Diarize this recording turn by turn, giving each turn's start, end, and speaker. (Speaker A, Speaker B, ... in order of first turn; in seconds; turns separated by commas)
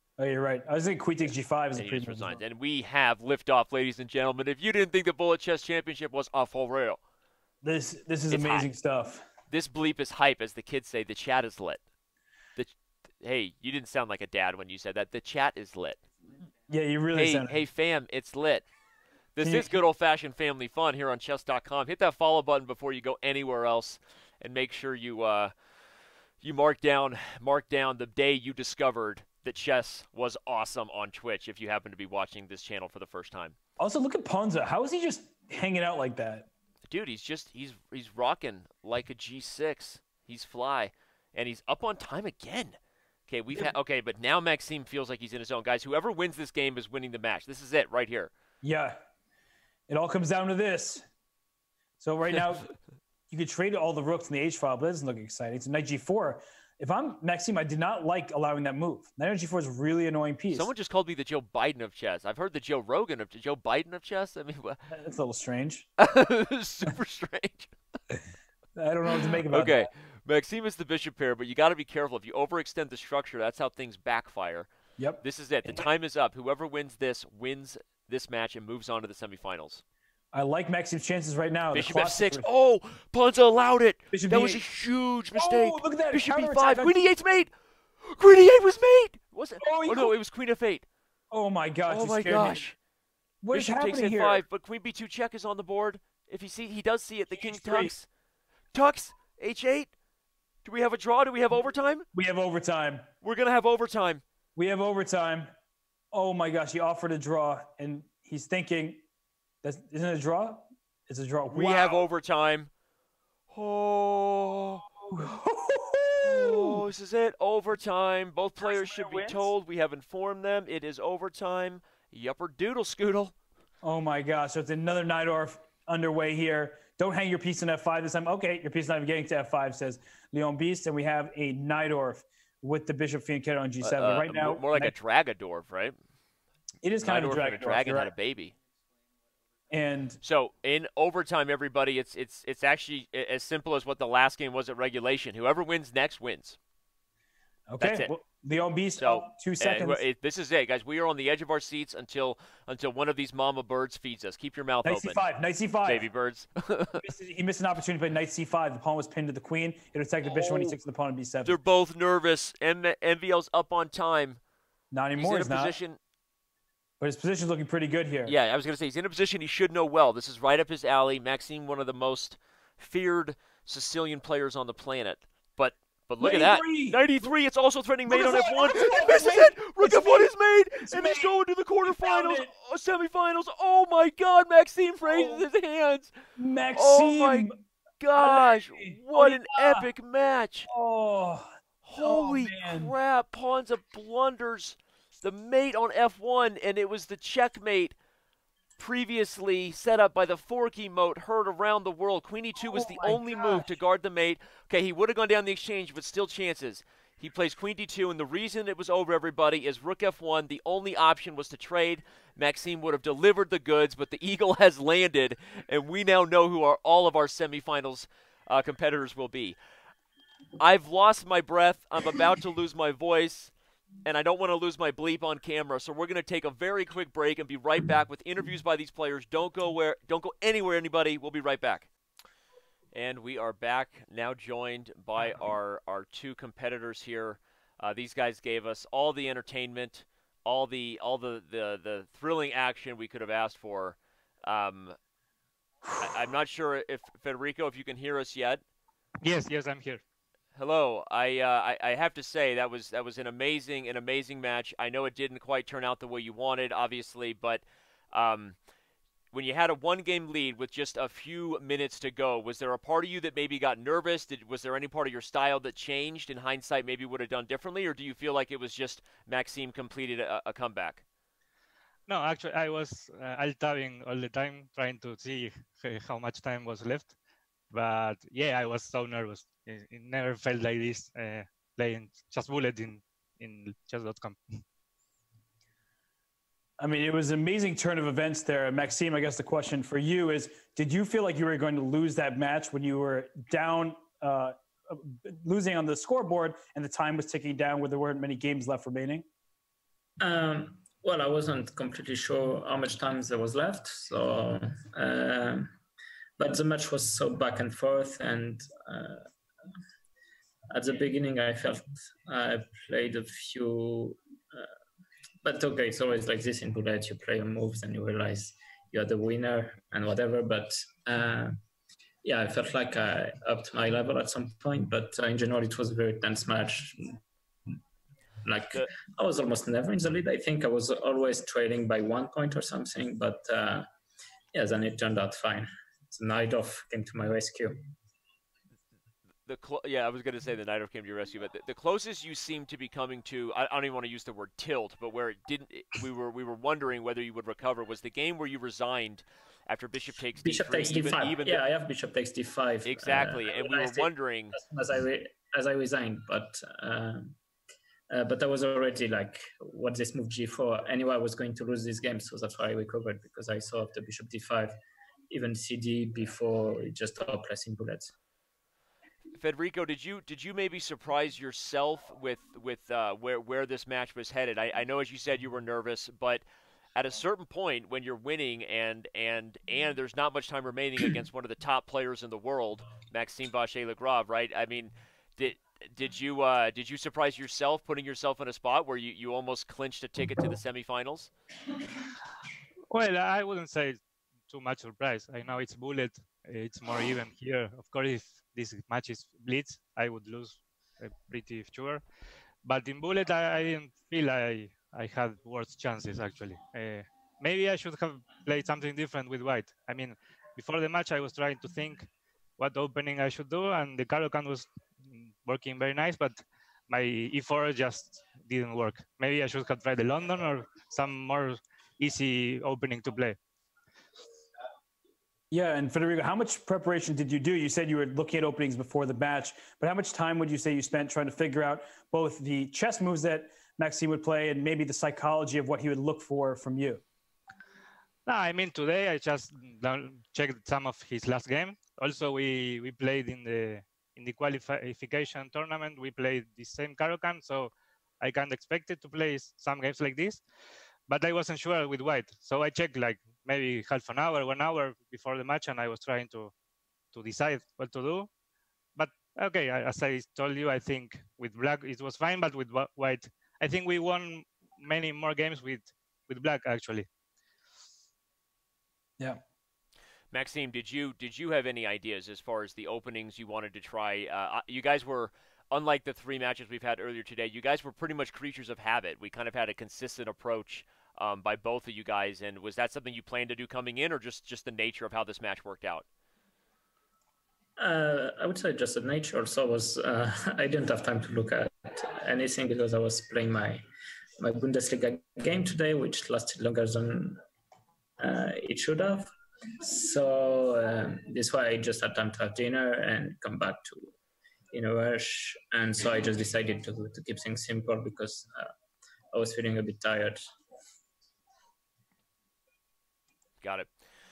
Speaker A: 0.2-2.4, Speaker B: 1.7-7.0, Speaker A: 7.6-9.2, Speaker B: 8.3-8.7, Speaker B: 9.5-11.8, Speaker B: 12.6-16.0, Speaker A: 16.7-17.6, Speaker B: 17.1-18.6, Speaker B: 19.3-25.5, Speaker A: 19.4-19.8, Speaker B: 26.4-33.5, Speaker A: 33.8-36.5, Speaker B: 36.9-48.3, Speaker A: 48.6-49.0, Speaker A: 49.9-51.0, Speaker A: 52.0-52.7, Speaker A: 53.3-60.7, Speaker B: 60.5-64.8, Speaker A: 64.9-65.9, Speaker B: 66.0-67.7, Speaker A: 68.8-69.9, Speaker B: 69.1-74.7, Speaker A: 75.0-75.9, Speaker B: 75.2-79.8, Speaker A: 80.3-82.5, Speaker B: 81.7-87.5, Speaker A: 84.1-84.6, Speaker A: 85.3-87.1, Speaker B: 88.0-90.9, Speaker A: 89.6-90.1, Speaker A: 91.3-92.7, Speaker B: 91.9-92.8, Speaker A: 93.4-94.4, Speaker B: 93.5-98.1, Speaker A: 97.3-97.9, Speaker B: 98.7-99.9, Speaker B: 100.6-102.1, Speaker A: 102.1-103.0, Speaker B: 103.2-104.2, Speaker A: 104.5-105.5, Speaker A: 106.1-109.0, Speaker A: 109.6-112.0, Speaker B: 111.5-112.7, Speaker B: 113.5-114.8, Speaker A: 115.0-116.8, Speaker B: 116.2-123.3, Speaker A: 118.6-119.5, Speaker A: 123.8-134.9, Speaker B: 133.8-135.9, Speaker A: 136.8-138.1, Speaker B: 137.0-138.5, Speaker A: 139.7-140.2, Speaker B: 140.2-146.6, Speaker A: 147.7-150.0, Speaker B: 147.8-148.1, Speaker B: 148.9-155.2, Speaker A: 154.8-156.1, Speaker B: 155.8-157.0, Speaker A: 157.0-161.6, Speaker B: 160.2-160.8, Speaker B: 161.4-164.4, Speaker A: 164.9-165.8, Speaker B: 165.2-166.0, Speaker A: 167.0-168.3, Speaker B: 168.2-186.1, Speaker A: 176.2-177.0, Speaker A: 178.1-182.5, Speaker A: 185.1-185.4, Speaker A: 186.4-187.6, Speaker B: 186.7-187.5, Speaker B: 188.0-190.7, Speaker A: 188.2-189.9, Speaker A: 190.7-192.9, Speaker B: 191.8-197.9, Speaker B: 198.8-219.6, Speaker A: 202.7-203.7, Speaker B: 220.6-223.5, Speaker B: 224.0-231.9, Speaker B: 232.9-245.0, Speaker B: 246.0-248.6, Speaker C: 249.2-250.0, Speaker B: 250.6-258.6, Speaker B: 259.3-271.0, Speaker C: 272.1-277.1, Speaker C: 277.7-284.4, Speaker A: 286.8-299.2, Speaker D: 300.2-305.7, Speaker D: 306.4-309.2, Speaker D: 310.7-314.7, Speaker D: 315.4-321.6, Speaker D: 322.2-327.2, Speaker D: 328.4-333.9, Speaker D: 334.5-337.8, Speaker B: 339.4-351.6, Speaker D: 350.4-357.4, Speaker B: 352.8-354.6, Speaker D: 358.1-364.7, Speaker D: 365.3-368.1, Speaker B: 369.4-391.3, Speaker C: 392.9-402.0, Speaker C: 402.6-412.1, Speaker C: 412.6-416.3, Speaker C: 416.9-423.4, Speaker A: 425.5-437.0, Speaker C: 438.2-450.4, Speaker C: 451.1-456.5, Speaker C: 457.1-458.3, Speaker C: 458.9-467.1, Speaker B: 470.3-486.1, Speaker D: 487.8-493.8, Speaker D: 494.4-497.4, Speaker D: 498.2-499.3, Speaker D: 499.8-504.1, Speaker D: 504.7-508.7, Speaker D: 509.3-510.4, Speaker B: 513.6-513.9